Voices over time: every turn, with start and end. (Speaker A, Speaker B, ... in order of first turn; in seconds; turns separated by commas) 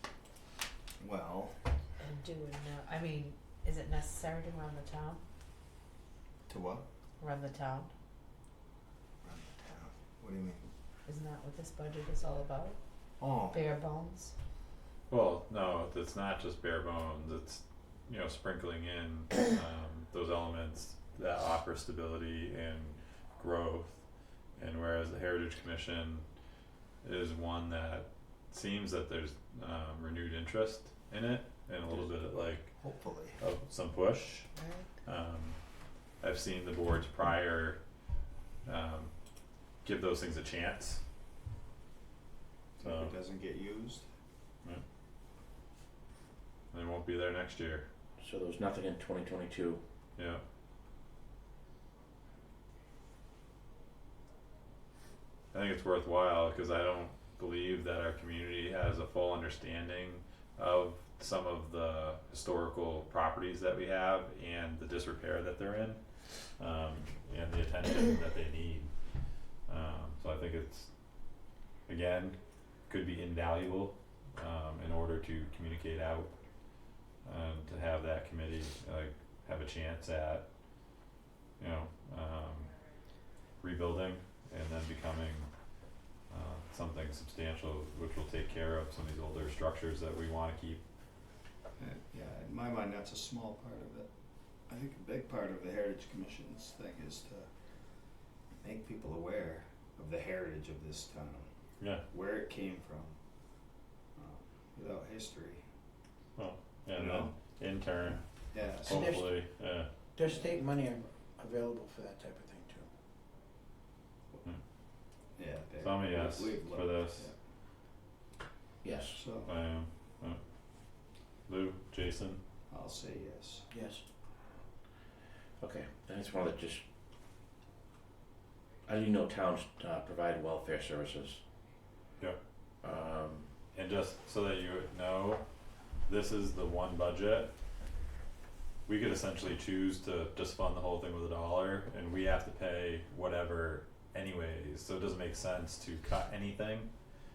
Speaker A: 1.0-1.7, Speaker B: 2.0-5.2, Speaker A: 6.5-6.8, Speaker B: 7.2-7.9, Speaker A: 9.2-10.7, Speaker B: 11.1-12.8, Speaker A: 13.2-13.6, Speaker B: 13.5-14.3, Speaker C: 15.1-24.0, Speaker C: 24.6-26.2, Speaker C: 27.0-32.8, Speaker A: 32.8-33.4, Speaker C: 33.4-34.5, Speaker B: 34.6-34.9, Speaker C: 35.0-35.6, Speaker C: 36.2-37.8, Speaker C: 38.6-39.1, Speaker C: 39.8-41.0, Speaker C: 42.8-43.1, Speaker A: 42.8-44.1, Speaker C: 46.7-47.9, Speaker D: 48.2-49.8, Speaker C: 50.1-50.4, Speaker C: 55.5-68.9, Speaker C: 69.7-70.9, Speaker C: 71.9-76.4, Speaker C: 77.2-80.5, Speaker C: 81.6-82.7, Speaker C: 83.6-85.5, Speaker C: 86.3-90.8, Speaker A: 91.8-94.1, Speaker A: 94.7-97.5, Speaker A: 98.6-101.5, Speaker A: 102.1-103.1, Speaker A: 104.1-105.6, Speaker C: 106.3-109.9, Speaker A: 106.9-107.3, Speaker A: 108.5-109.1, Speaker E: 108.9-109.3, Speaker E: 110.2-112.9, Speaker A: 110.3-110.5, Speaker A: 115.3-117.3, Speaker C: 115.8-117.3, Speaker D: 118.8-119.2, Speaker A: 119.1-119.5, Speaker C: 119.4-120.4, Speaker C: 121.5-122.4, Speaker A: 122.7-123.7, Speaker E: 123.7-124.0, Speaker D: 125.6-126.8, Speaker D: 128.8-131.4, Speaker D: 132.8-133.5, Speaker C: 133.7-135.4, Speaker C: 136.0-137.5, Speaker C: 138.8-146.9